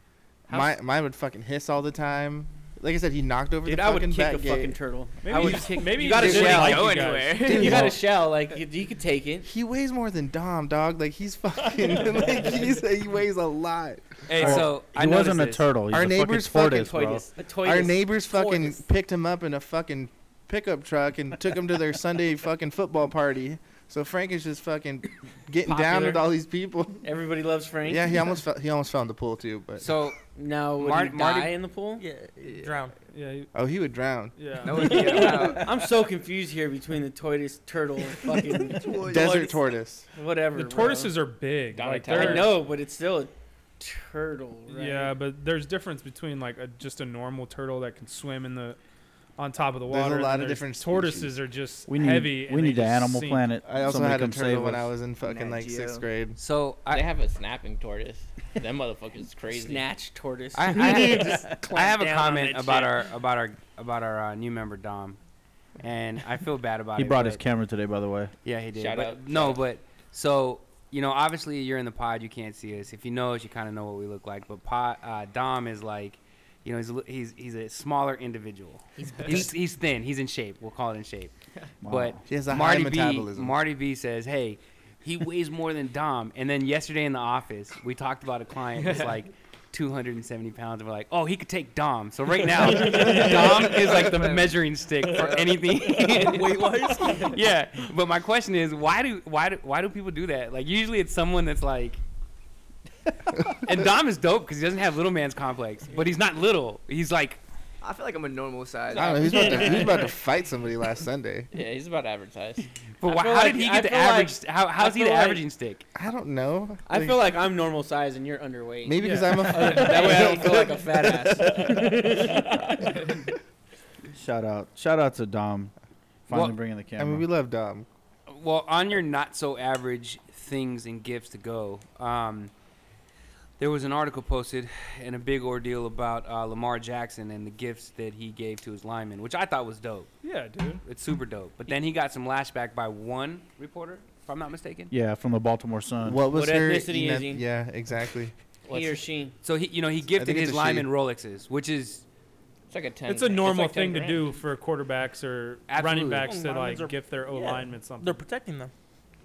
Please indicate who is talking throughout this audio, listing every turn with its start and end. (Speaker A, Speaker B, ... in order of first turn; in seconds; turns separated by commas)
Speaker A: 0.5-4.8, Speaker B: 3.6-9.5, Speaker C: 5.2-7.3, Speaker A: 5.3-6.8, Speaker D: 6.2-7.8, Speaker A: 7.4-8.0, Speaker A: 9.4-14.7, Speaker E: 14.3-15.7, Speaker F: 14.4-17.2, Speaker A: 15.9-16.9, Speaker B: 16.7-18.8, Speaker A: 17.6-27.0, Speaker B: 25.6-26.2, Speaker B: 27.0-28.2, Speaker A: 27.9-29.9, Speaker E: 29.8-30.2, Speaker B: 30.4-32.0, Speaker E: 30.8-31.5, Speaker G: 32.0-33.0, Speaker D: 32.4-32.7, Speaker C: 33.1-33.5, Speaker A: 33.5-34.5, Speaker C: 34.4-35.2, Speaker D: 34.6-35.7, Speaker B: 35.0-39.2, Speaker D: 38.8-39.6, Speaker A: 39.0-40.1, Speaker B: 40.1-41.1, Speaker C: 40.5-42.6, Speaker H: 41.7-42.6, Speaker B: 42.1-45.2, Speaker C: 44.7-48.8, Speaker C: 49.4-53.5, Speaker A: 49.9-51.4, Speaker F: 51.9-54.9, Speaker A: 53.6-56.4, Speaker D: 55.2-56.1, Speaker E: 56.4-57.1, Speaker H: 56.9-59.9, Speaker B: 59.5-63.0, Speaker E: 60.5-65.2, Speaker E: 65.8-67.4, Speaker F: 67.0-68.3, Speaker E: 68.5-81.3, Speaker H: 68.8-69.6, Speaker G: 79.0-79.5, Speaker D: 79.1-79.5, Speaker F: 81.8-82.2, Speaker E: 81.9-102.0, Speaker A: 82.3-83.6, Speaker D: 88.8-89.2, Speaker D: 92.8-97.4, Speaker G: 96.0-97.3, Speaker E: 103.5-107.4, Speaker D: 107.8-110.0, Speaker A: 108.9-111.5, Speaker H: 109.4-109.8, Speaker H: 111.5-112.7, Speaker E: 113.0-115.8, Speaker B: 113.0-115.4, Speaker A: 116.0-117.3, Speaker B: 116.9-122.9, Speaker A: 118.8-121.6, Speaker C: 119.0-119.8, Speaker F: 124.1-125.7, Speaker F: 126.3-127.3, Speaker E: 126.3-126.6, Speaker A: 127.0-127.9, Speaker E: 128.3-132.5, Speaker E: 133.6-140.1, Speaker C: 140.2-140.8, Speaker E: 140.8-144.9, Speaker F: 144.9-146.2, Speaker A: 146.1-148.3, Speaker B: 146.3-147.4, Speaker H: 148.7-149.0, Speaker B: 148.7-149.4, Speaker E: 149.4-152.1, Speaker A: 150.1-150.9, Speaker H: 152.7-154.3, Speaker C: 153.1-158.2, Speaker E: 155.7-156.3, Speaker G: 156.2-158.7